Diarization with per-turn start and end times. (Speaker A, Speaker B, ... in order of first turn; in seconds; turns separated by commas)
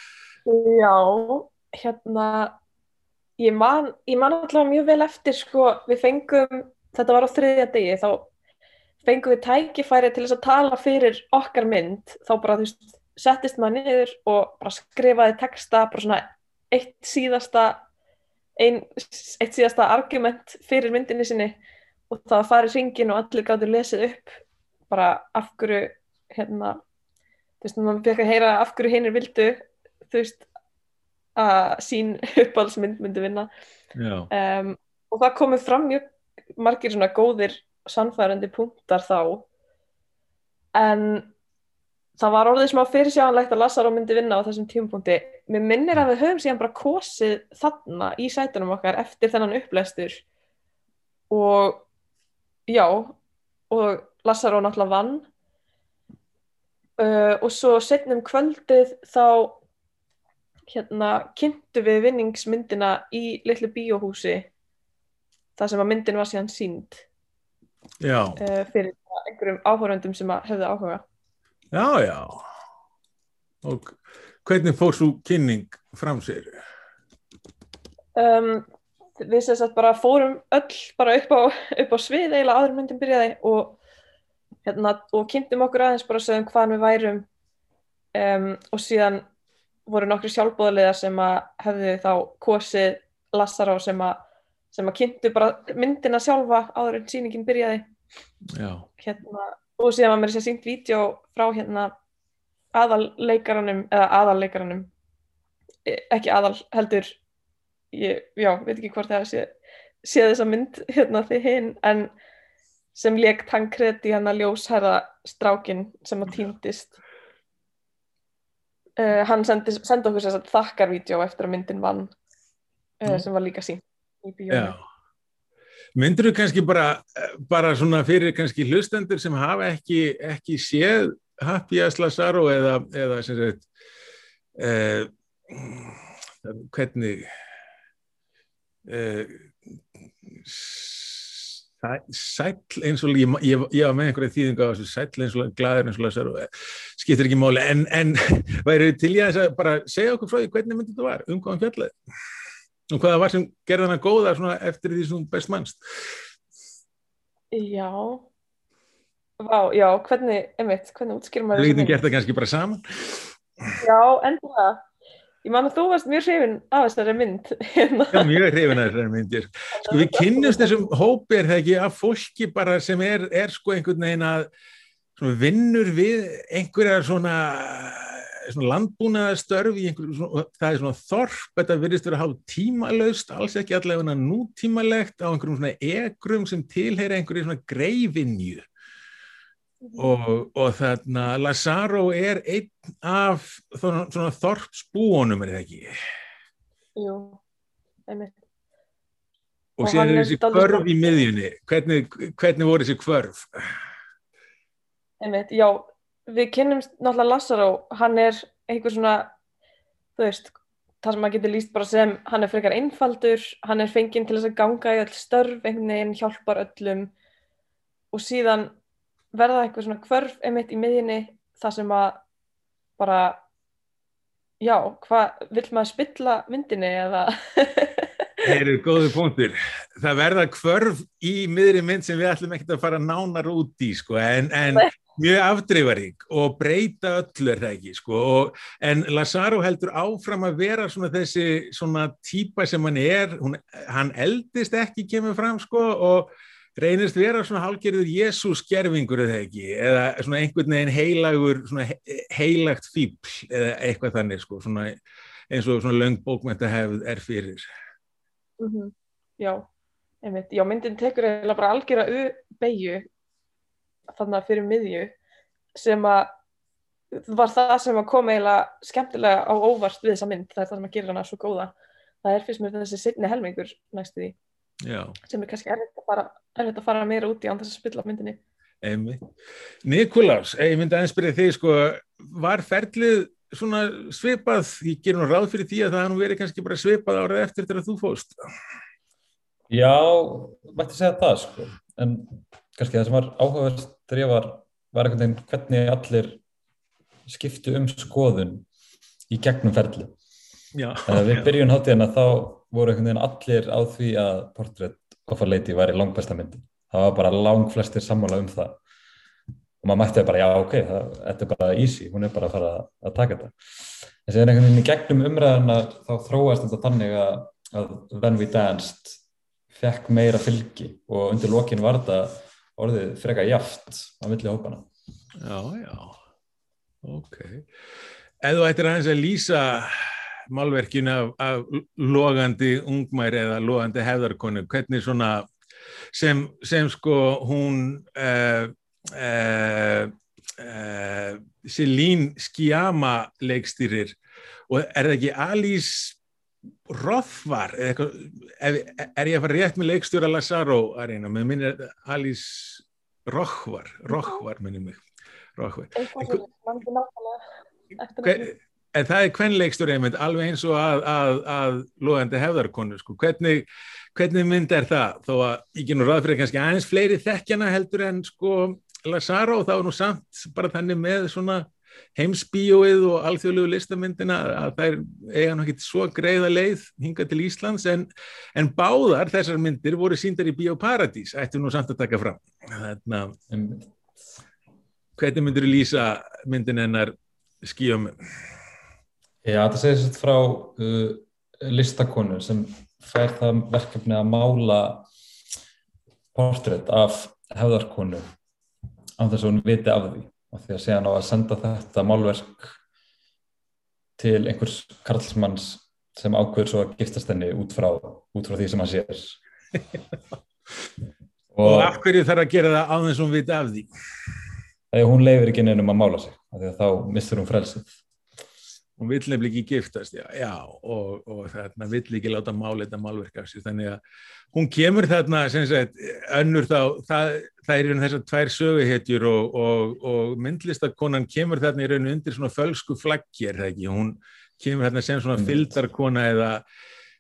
Speaker A: 0.5-2.6, Speaker A: 3.4-8.3, Speaker A: 9.0-17.9, Speaker A: 18.6-21.6, Speaker A: 22.1-26.8, Speaker A: 27.6-30.5, Speaker A: 31.4-33.5, Speaker B: 34.0-34.3, Speaker A: 34.3-39.5, Speaker A: 40.8-41.3, Speaker A: 42.2-50.2, Speaker A: 51.3-51.9, Speaker A: 52.7-53.2, Speaker A: 53.7-55.3, Speaker A: 57.0-59.6, Speaker A: 60.7-64.5, Speaker A: 65.6-67.0, Speaker B: 68.0-68.4, Speaker A: 68.4-71.0, Speaker B: 71.7-72.4, Speaker B: 73.6-76.5, Speaker A: 78.2-78.7, Speaker A: 79.2-83.8, Speaker A: 84.7-87.3, Speaker A: 88.2-89.2, Speaker A: 89.9-94.2, Speaker A: 94.7-97.9, Speaker B: 98.5-98.9, Speaker A: 99.0-101.9, Speaker A: 102.7-104.9, Speaker A: 105.9-107.2, Speaker A: 107.9-112.1, Speaker A: 113.0-117.0, Speaker A: 119.0-122.1, Speaker A: 123.0-124.7, Speaker B: 124.5-124.8, Speaker B: 126.0-133.7, Speaker B: 134.6-137.3, Speaker B: 138.9-139.5, Speaker B: 140.3-151.9, Speaker B: 152.9-155.8, Speaker A: 157.5-158.3, Speaker A: 159.4-162.0, Speaker B: 161.5-163.3, Speaker A: 163.8-164.8, Speaker A: 165.4-168.4, Speaker B: 168.1-174.5, Speaker A: 169.8-170.8, Speaker B: 175.2-188.7, Speaker A: 189.8-190.1, Speaker B: 190.0-195.9, Speaker A: 197.0-197.4, Speaker A: 198.1-198.3, Speaker B: 199.8-203.7, Speaker A: 199.8-200.9, Speaker A: 205.2-209.3, Speaker A: 210.2-217.1, Speaker A: 218.1-218.8, Speaker A: 219.3-222.2, Speaker A: 223.0-223.4, Speaker A: 224.6-228.4, Speaker B: 228.4-255.0, Speaker B: 255.5-257.6, Speaker A: 258.6-259.6, Speaker A: 260.2-263.1, Speaker A: 264.1-265.1, Speaker A: 265.8-266.3, Speaker A: 267.1-274.4, Speaker B: 274.8-275.2, Speaker A: 275.3-278.4, Speaker B: 278.8-279.2, Speaker B: 279.8-288.4, Speaker C: 289.7-296.4, Speaker C: 297.3-298.7, Speaker C: 299.3-300.1, Speaker B: 300.7-301.5, Speaker C: 301.1-308.8, Speaker C: 309.8-313.6, Speaker C: 314.2-319.2, Speaker C: 319.7-324.9, Speaker B: 325.4-326.2, Speaker B: 327.0-327.6, Speaker B: 328.4-335.5, Speaker B: 336.1-344.2, Speaker B: 344.7-346.2, Speaker B: 346.9-355.0, Speaker A: 354.1-354.4, Speaker B: 355.6-356.4, Speaker A: 356.0-357.4, Speaker A: 358.0-358.5, Speaker B: 358.2-383.4, Speaker C: 383.5-383.9, Speaker B: 385.2-388.2, Speaker C: 389.4-395.1, Speaker C: 396.3-398.2, Speaker C: 399.2-402.8, Speaker C: 404.2-409.4, Speaker C: 411.5-412.0, Speaker B: 411.6-413.9, Speaker C: 414.9-417.9, Speaker B: 419.0-424.0, Speaker B: 424.5-436.6, Speaker C: 435.4-435.8